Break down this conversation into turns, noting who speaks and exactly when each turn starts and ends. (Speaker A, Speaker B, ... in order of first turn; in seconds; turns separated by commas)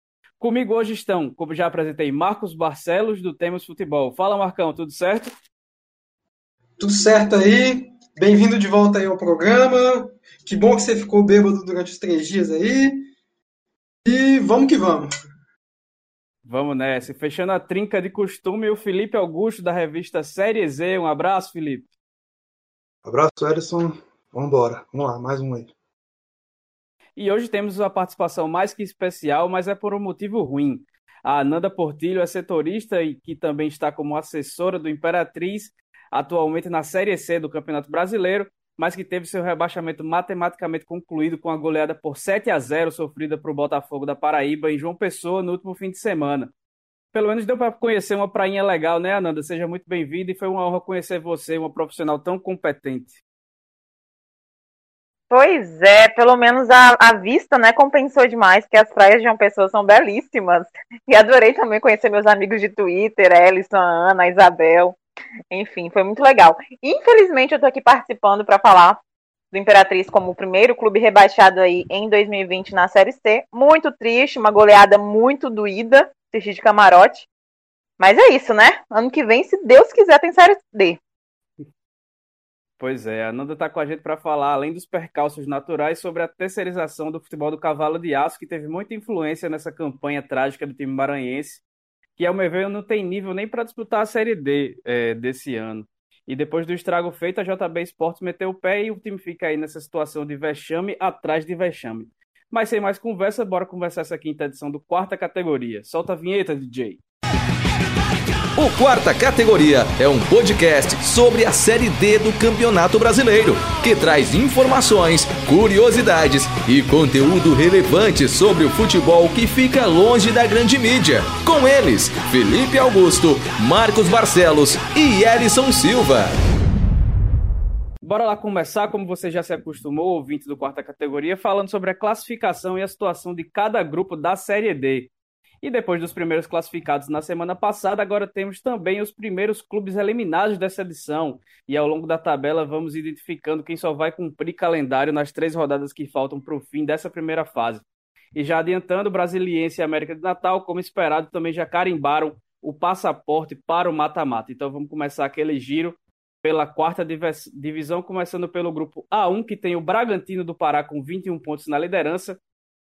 Speaker A: 0.4-5.3, Speaker B: 6.8-13.1, Speaker B: 14.0-15.1, Speaker A: 16.4-21.9, Speaker C: 23.0-25.7, Speaker A: 27.1-46.5, Speaker A: 47.1-53.2, Speaker D: 55.3-65.0, Speaker D: 65.5-69.0, Speaker D: 69.5-77.3, Speaker D: 78.0-81.0, Speaker A: 82.8-91.6, Speaker A: 92.2-107.0, Speaker E: 108.6-126.3, Speaker A: 128.0-135.1, Speaker A: 135.6-162.4